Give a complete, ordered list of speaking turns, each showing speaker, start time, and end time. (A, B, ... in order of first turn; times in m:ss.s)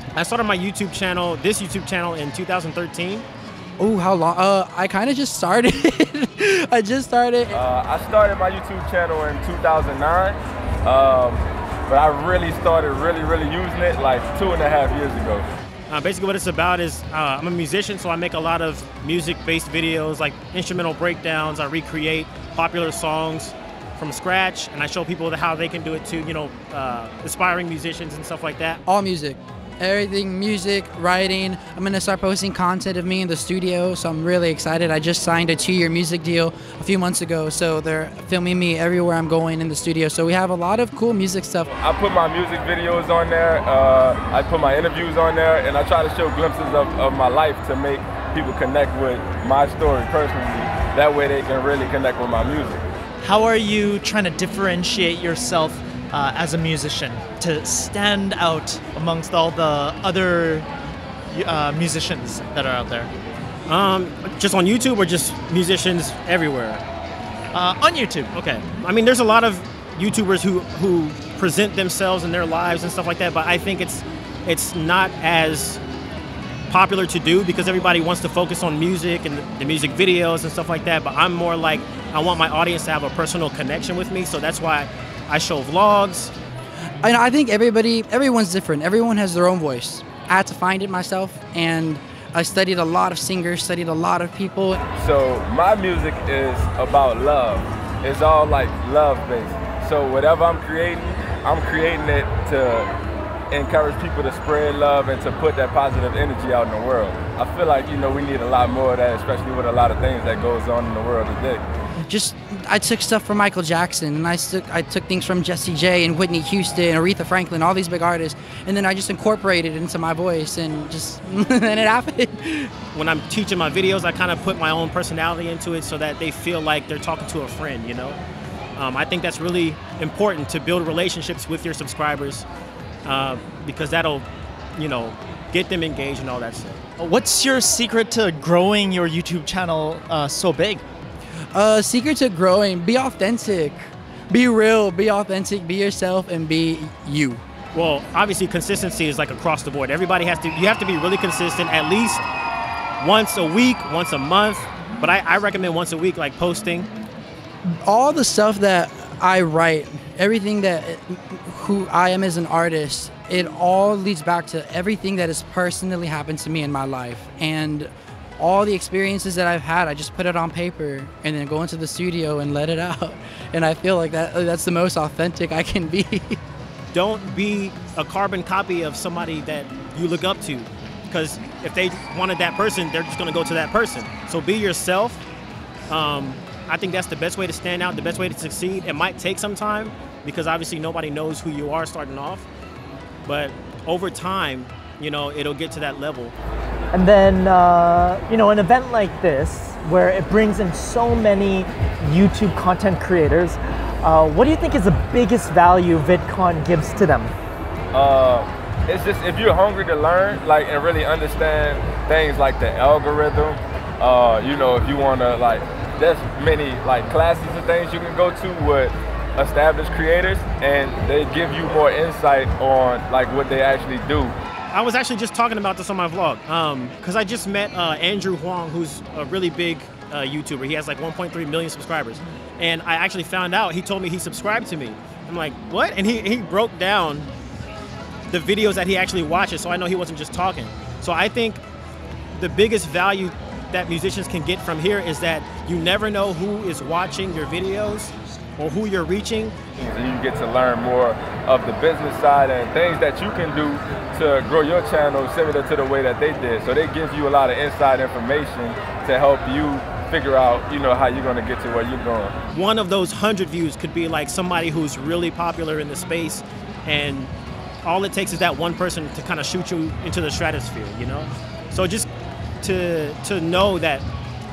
0:00.1-0:03.2 A
0:03.8-0:07.6 B
0:07.5-0:15.4 C
0:15.9-0:28.8 A
0:28.8-0:41.7 B
0:41.6-0:52.8 C
0:53.2-1:00.7 D
1:01.3-1:03.1 D
1:03.7-1:06.8 A
1:07.5-1:08.3 D
1:08.3-1:15.8 A
1:16.7-1:26.3 A
1:27.0-1:34.8 B
1:35.0-1:42.9 C
1:43.5-1:51.6 C
1:52.1-2:02.7 B
2:02.9-2:08.2 A
2:08.8-2:12.4 A
2:13.0-2:16.8 A
2:17.0-2:20.8 D
2:21.5-2:27.4 B
2:27.7-2:32.2 A
2:33.0-2:36.9 A
2:37.8-2:56.4 B
2:56.9-3:05.2 A
3:05.9-3:12.5 A
3:13.2-3:16.3 A
3:16.9-3:27.3 E
3:27.9-3:44.3 C
3:44.7-3:57.3 A
3:58.3-4:01.6 A
4:02.3-4:09.6 A
4:09.8-4:22.3 C
4:22.5-4:27.3 A
4:27.8-4:32.1 A
4:32.6-4:34.0 A